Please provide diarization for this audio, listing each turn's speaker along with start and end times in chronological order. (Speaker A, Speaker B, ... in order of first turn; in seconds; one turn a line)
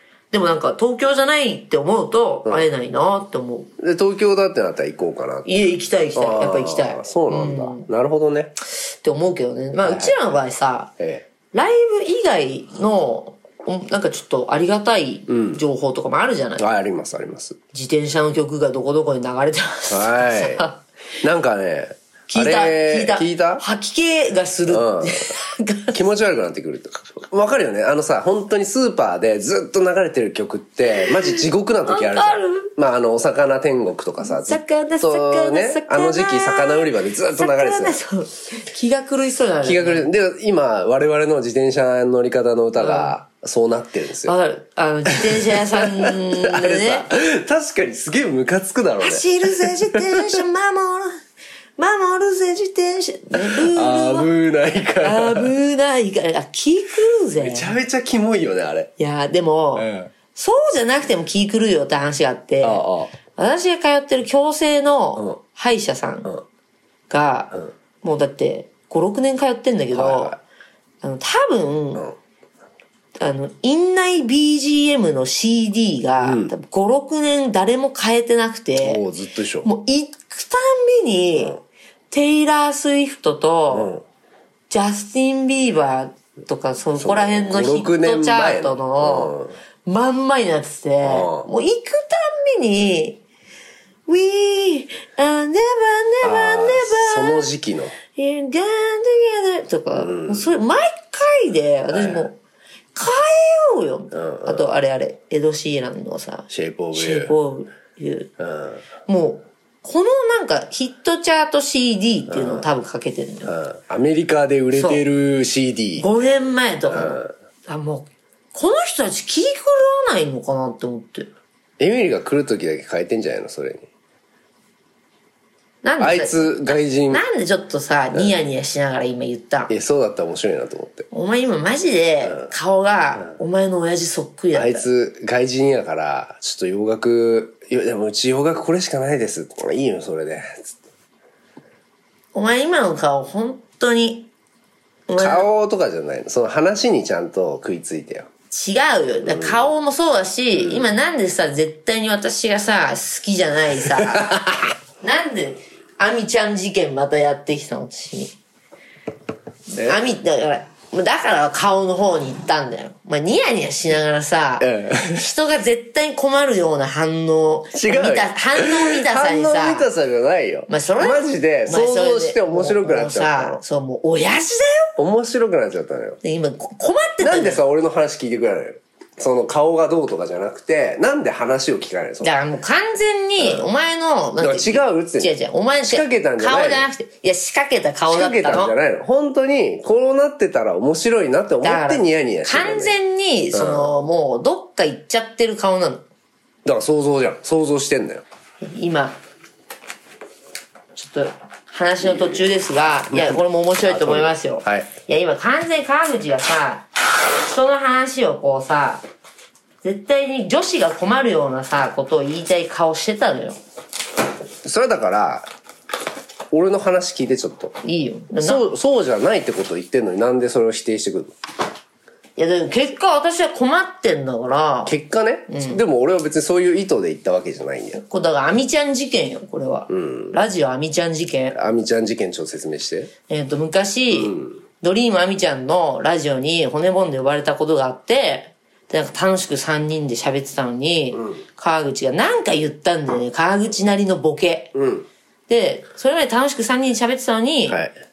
Speaker A: 0.3-3.7
Speaker B: 3.8-8.6
Speaker A: 5.5-7.9
Speaker A: 9.0-10.9
Speaker B: 9.8-10.4
Speaker B: 11.0-11.3
Speaker A: 11.5-16.6
Speaker B: 15.3-15.6
Speaker B: 16.6-17.6
Speaker A: 17.7-20.8
Speaker B: 19.9-20.7
Speaker B: 21.2-23.6
Speaker A: 22.3-26.0
Speaker B: 24.7-25.3
Speaker B: 25.9-38.0
Speaker A: 31.0-32.7
Speaker A: 34.2-40.1
Speaker B: 39.6-44.3
Speaker A: 42.8-43.1
Speaker A: 44.2-47.1
Speaker B: 45.1-50.5
Speaker A: 49.0-51.2
Speaker A: 51.8-54.3
Speaker B: 53.4-55.5
Speaker A: 55.0-57.7
Speaker B: 57.4-58.9
Speaker A: 59.0-66.3
Speaker B: 59.8-60.1
Speaker B: 62.6-63.1
Speaker A: 67.1-70.3
Speaker B: 69.9-70.4
Speaker A: 71.0-72.1
Speaker A: 73.2-79.0
Speaker B: 76.2-76.5
Speaker B: 78.8-79.7
Speaker A: 79.6-81.6
Speaker A: 82.1-83.9
Speaker B: 83.7-84.0
Speaker A: 84.7-89.3
Speaker B: 87.0-89.5
Speaker A: 89.8-93.2
Speaker B: 91.0-91.5
Speaker A: 94.1-97.5
Speaker B: 96.2-98.0
Speaker A: 98.1-102.4
Speaker B: 99.9-100.5
Speaker B: 101.9-102.3
Speaker A: 103.0-108.3
Speaker B: 104.1-104.7
Speaker B: 106.5-107.3
Speaker B: 108.4-108.8
Speaker A: 109.1-113.5
Speaker B: 112.3-112.7
Speaker B: 113.5-116.1
Speaker A: 114.7-115.0
Speaker A: 116.0-121.3
Speaker B: 116.9-117.3
Speaker B: 121.8-123.9
Speaker A: 125.8-129.7
Speaker B: 126.0-127.2
Speaker B: 129.7-131.1
Speaker A: 131.1-134.9
Speaker B: 134.5-140.7
Speaker A: 142.3-144.3
Speaker A: 145.1-145.5
Speaker B: 145.2-148.3
Speaker A: 148.5-154.4
Speaker B: 149.2-149.7
Speaker B: 150.6-150.9
Speaker B: 154.0-154.7
Speaker A: 155.0-158.4
Speaker A: 159.7-169.9
Speaker B: 159.8-160.1
Speaker B: 164.6-165.2
Speaker B: 167.7-173.6
Speaker A: 170.7-174.9
Speaker B: 175.0-176.2
Speaker A: 176.2-177.6
Speaker B: 177.2-182.4
Speaker A: 182.2-188.7
Speaker B: 183.4-183.7
Speaker B: 184.4-186.9
Speaker B: 188.1-192.9
Speaker A: 191.6-196.0
Speaker B: 193.5-193.9
Speaker B: 196.7-198.2
Speaker A: 198.6-199.2
Speaker A: 201.0-209.0
Speaker B: 202.0-202.4
Speaker B: 203.1-204.9
Speaker A: 209.8-213.6
Speaker B: 214.6-215.5
Speaker B: 216.5-217.8
Speaker A: 217.8-218.6
Speaker B: 218.4-221.3
Speaker A: 222.4-225.0
Speaker B: 224.9-228.0
Speaker A: 225.5-225.8
Speaker A: 227.9-231.6
Speaker B: 229.9-230.4
Speaker B: 231.5-233.1
Speaker A: 233.3-244.8
Speaker B: 234.1-234.6
Speaker B: 244.8-245.1
Speaker A: 245.5-247.8
Speaker B: 247.7-247.9